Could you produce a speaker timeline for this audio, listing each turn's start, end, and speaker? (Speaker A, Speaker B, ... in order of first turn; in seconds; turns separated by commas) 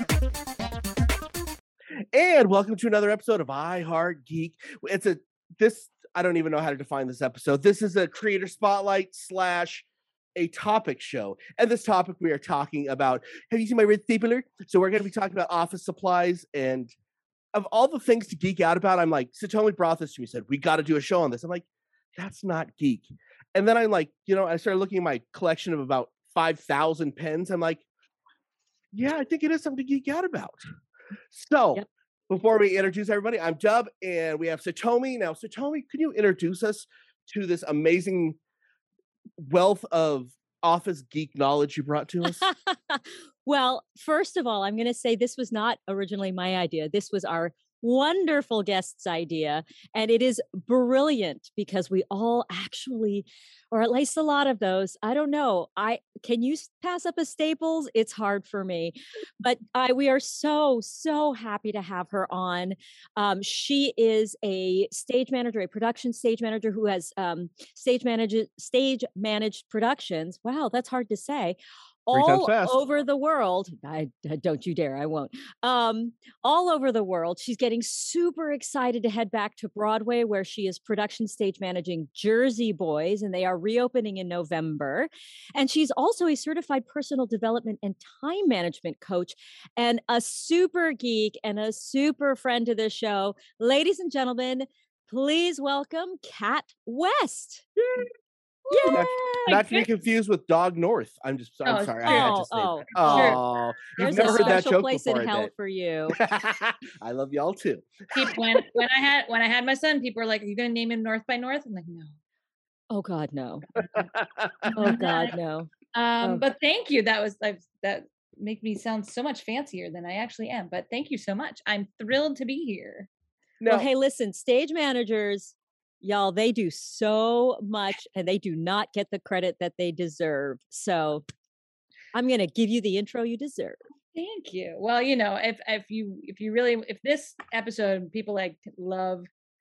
Speaker A: 2.1-16.9, Speaker A: 17.5-27.9, Speaker A: 28.9-30.7, Speaker A: 31.3-38.4, Speaker A: 39.4-42.5, Speaker B: 42.2-97.8, Speaker A: 72.1-72.8, Speaker C: 98.7-99.9, Speaker B: 98.7-99.6, Speaker A: 98.9-105.5, Speaker C: 101.7-102.4, Speaker B: 102.0-103.4, Speaker C: 102.9-104.6, Speaker B: 104.0-106.2, Speaker A: 106.2-108.4, Speaker C: 108.1-112.2, Speaker B: 112.9-113.7, Speaker A: 113.9-114.9, Speaker C: 114.7-115.4, Speaker B: 114.7-115.7, Speaker C: 115.9-123.1, Speaker A: 123.6-123.9, Speaker B: 123.7-131.2, Speaker B: 132.1-133.8, Speaker C: 134.2-139.3